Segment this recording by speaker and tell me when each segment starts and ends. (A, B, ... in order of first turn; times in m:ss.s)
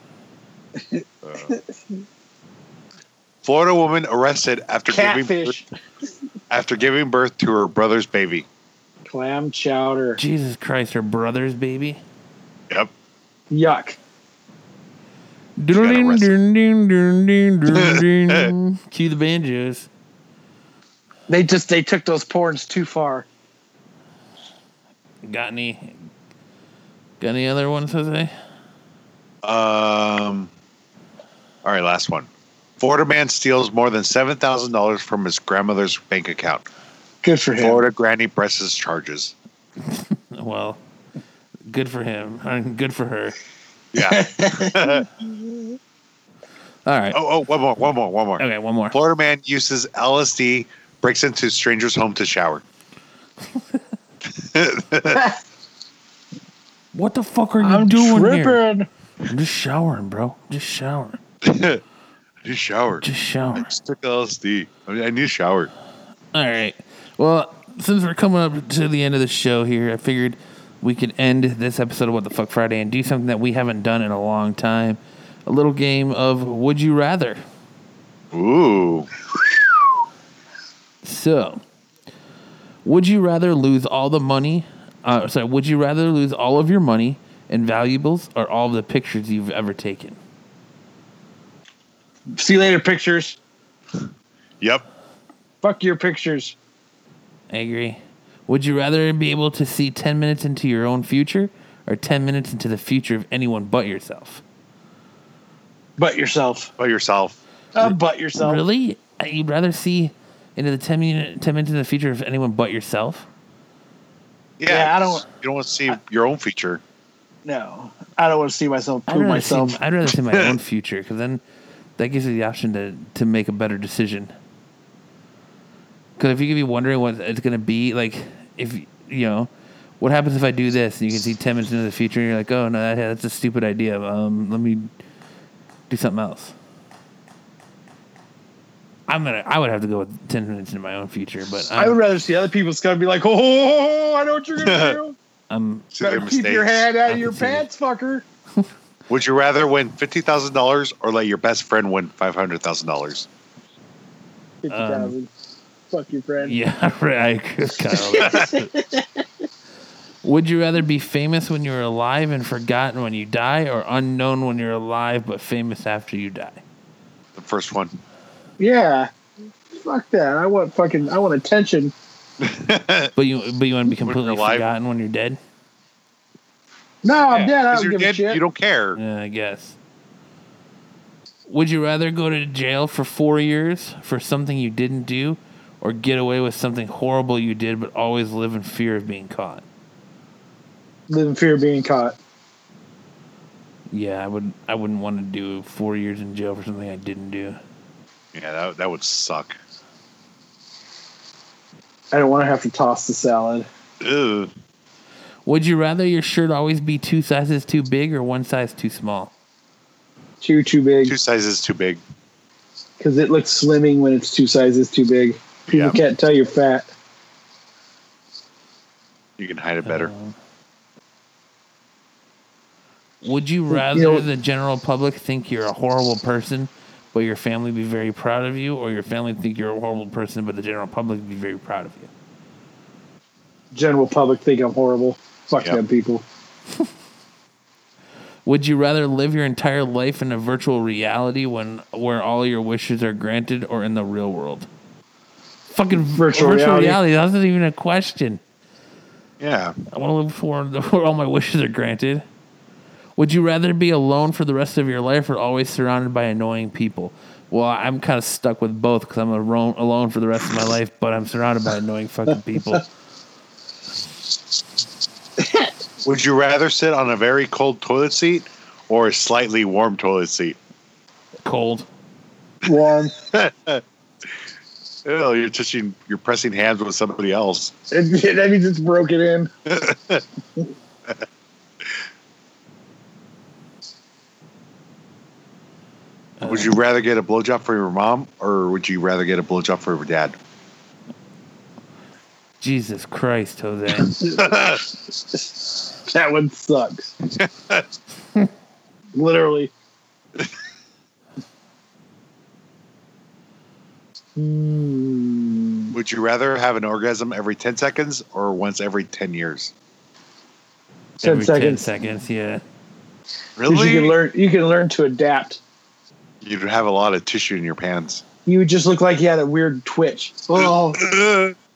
0:00.9-0:01.6 A
0:01.2-0:01.6 B
0:03.4-0:05.6 B
0:04.9-0:05.6 A
0:06.5-0:08.4 B
0:09.0-0:10.2 A
0:10.2-0:12.0 C
0:13.5-0:14.0 A
0:15.6-0:19.9 C
0:15.7-0:16.3 B
0:17.7-0:18.5 B
0:21.3-0:23.2 A
0:25.2-0:26.0 C
0:27.2-0:28.3 C
0:29.4-0:30.5 B
0:31.6-0:36.6 B
0:37.2-0:37.8 A
0:37.6-0:39.3 B
0:39.8-0:40.8 C
0:41.7-0:43.4 C
0:43.9-0:45.1 B
0:44.0-0:45.2 A
0:46.8-0:47.2 C
0:47.1-0:52.6 B
0:48.4-0:49.0 C
0:54.2-0:55.3 B
0:56.9-0:58.6 C
0:57.6-0:58.9 A
0:59.2-1:01.2 C
1:01.4-1:01.8 B
1:02.4-1:05.7 B
1:03.0-1:03.7 C
1:06.3-1:17.4 C
1:18.3-1:19.1 B
1:21.0-1:21.6 C
1:22.8-1:30.2 C
1:32.3-1:33.4 A
1:35.6-1:36.5 A
1:37.5-1:44.4 C
1:46.0-1:46.7 A
1:46.8-1:47.9 B
1:47.7-1:48.6 A
1:48.4-1:53.3 C
1:54.6-1:56.8 B
1:54.7-1:55.2 A
1:57.4-1:59.8 A
1:59.1-2:01.4 C
2:02.0-2:04.3 C
2:06.2-2:14.9 C
2:15.9-2:16.5 C
2:19.1-2:22.0 C
2:21.8-2:25.2 A
2:24.6-2:25.0 B
2:25.5-2:25.9 C
2:25.9-2:26.9 B
2:26.0-2:28.2 A
2:27.0-2:27.6 C
2:29.1-2:33.3 B
2:34.6-2:35.3 A
2:34.7-2:35.1 C
2:35.9-2:36.6 A
2:36.4-2:38.8 C
2:38.1-2:39.0 A
2:38.2-2:38.5 B
2:40.2-2:46.6 C
2:47.3-2:48.0 B
2:48.6-2:49.1 A
2:49.7-2:51.9 A
2:52.4-2:53.1 B
2:53.2-2:55.4 C
2:54.0-2:54.6 B
2:57.0-2:58.4 A
2:57.3-2:59.0 B
2:59.0-2:59.8 C
3:01.5-3:09.6 C
3:11.1-3:12.2 A
3:13.9-3:17.6 C
3:18.3-3:19.6 B
3:22.1-3:23.7 A
3:24.0-3:24.5 B
3:25.4-3:29.3 C
3:30.4-3:31.1 A
3:31.0-3:32.0 B
3:33.0-3:36.9 A
3:35.7-3:36.0 B
3:39.4-3:40.1 B
3:39.8-3:40.3 C
3:43.2-3:52.1 C
3:43.7-3:44.2 A
3:53.7-3:56.2 A
3:58.4-4:04.7 C
4:05.7-4:08.4 C
4:06.1-4:07.0 A
4:09.4-4:09.8 B
4:09.9-4:12.2 C
4:13.2-4:22.8 C
4:25.4-4:25.7 A
4:26.0-4:30.6 B
4:31.4-4:31.9 C
4:32.6-4:33.1 A
4:33.2-4:33.8 B
4:35.0-4:37.7 B
4:37.9-4:39.5 A
4:39.6-4:40.2 B
4:46.4-4:46.7 C
4:46.4-4:50.3 B
4:52.6-4:54.2 C
4:54.2-4:54.8 A
4:54.3-4:54.8 B
4:55.3-4:57.1 A
4:57.3-4:57.8 B
4:59.1-4:59.7 A
5:04.4-5:05.9 A
5:05.9-5:09.7 B
5:11.2-5:12.6 C
5:11.2-5:11.8 A
5:13.6-5:14.2 B
5:13.6-5:15.6 A
5:16.4-5:18.2 B
5:18.4-5:21.0 A
5:20.5-5:21.5 B